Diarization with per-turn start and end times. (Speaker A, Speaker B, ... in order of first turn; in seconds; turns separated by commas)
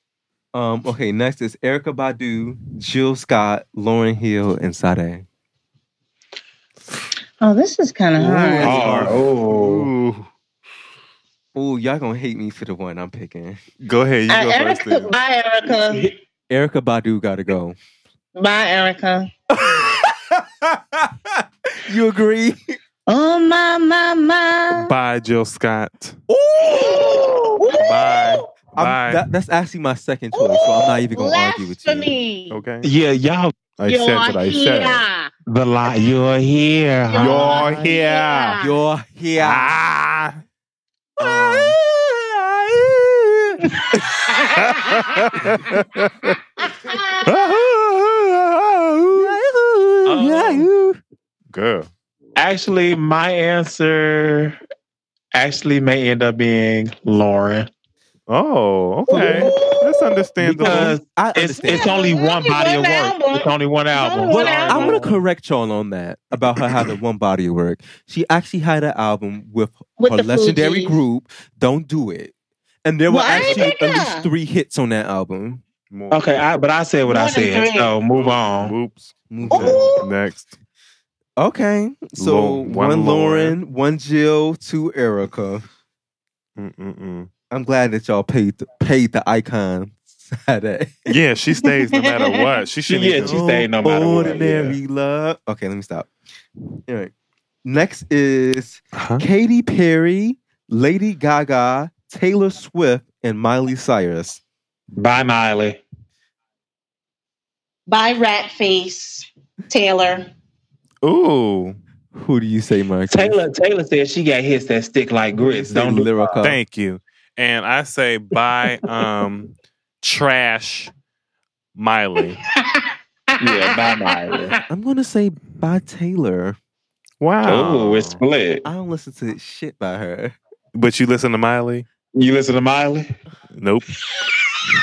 Speaker A: 0.5-5.2, Speaker B: 7.4-8.8, Speaker A: 8.2-9.2, Speaker C: 8.6-9.9, Speaker D: 8.6-10.3, Speaker A: 11.5-13.6, Speaker D: 13.8-15.1, Speaker B: 14.3-16.1, Speaker A: 16.5-17.8, Speaker B: 18.3-19.3, Speaker A: 19.5-22.8, Speaker B: 23.1-24.9, Speaker D: 24.7-26.2, Speaker A: 26.3-27.3, Speaker B: 26.6-28.5, Speaker D: 27.8-29.2, Speaker A: 28.7-32.1, Speaker B: 30.3-32.6, Speaker D: 32.5-32.9, Speaker C: 32.8-33.5, Speaker D: 33.8-35.0, Speaker B: 33.9-35.3, Speaker C: 35.5-37.6, Speaker B: 37.1-38.8, Speaker D: 37.2-38.6, Speaker A: 38.6-39.8, Speaker D: 39.4-40.4, Speaker A: 41.2-43.8, Speaker C: 41.2-41.7, Speaker D: 44.5-46.4, Speaker B: 44.6-45.0, Speaker B: 46.9-47.3, Speaker D: 47.2-49.4, Speaker A: 49.1-51.0, Speaker C: 50.0-50.7, Speaker D: 51.5-51.9, Speaker C: 52.4-54.6, Speaker C: 55.3-57.7, Speaker D: 58.3-61.0, Speaker A: 59.1-59.5, Speaker B: 59.1-60.2, Speaker A: 60.4-61.9, Speaker C: 60.6-65.2, Speaker B: 61.6-65.0, Speaker A: 64.3-72.3, Speaker B: 70.0-71.0, Speaker A: 72.8-75.6, Speaker B: 73.1-74.3, Speaker C: 73.3-73.6, Speaker D: 75.9-76.4, Speaker C: 76.1-78.8, Speaker B: 77.1-77.9, Speaker D: 78.1-80.5, Speaker A: 79.3-79.9, Speaker B: 79.5-80.1, Speaker A: 81.4-85.6, Speaker D: 82.2-83.5, Speaker D: 86.6-87.3, Speaker A: 87.5-91.1, Speaker D: 91.1-93.4, Speaker B: 92.2-92.5, Speaker C: 92.9-94.8, Speaker A: 93.2-96.1, Speaker A: 96.9-97.1, Speaker A: 97.6-104.4, Speaker D: 98.9-99.2, Speaker C: 104.9-105.8, Speaker B: 107.9-110.3, Speaker D: 111.0-111.8, Speaker A: 112.1-113.4, Speaker C: 113.1-116.4, Speaker A: 115.4-116.6, Speaker D: 116.4-120.9, Speaker D: 121.7-122.4, Speaker B: 122.5-124.5, Speaker C: 123.4-124.5, Speaker A: 124.7-126.6, Speaker D: 127.2-128.2, Speaker C: 127.5-128.7, Speaker A: 128.6-130.3, Speaker D: 130.7-131.8, Speaker C: 132.1-133.1, Speaker D: 133.5-133.9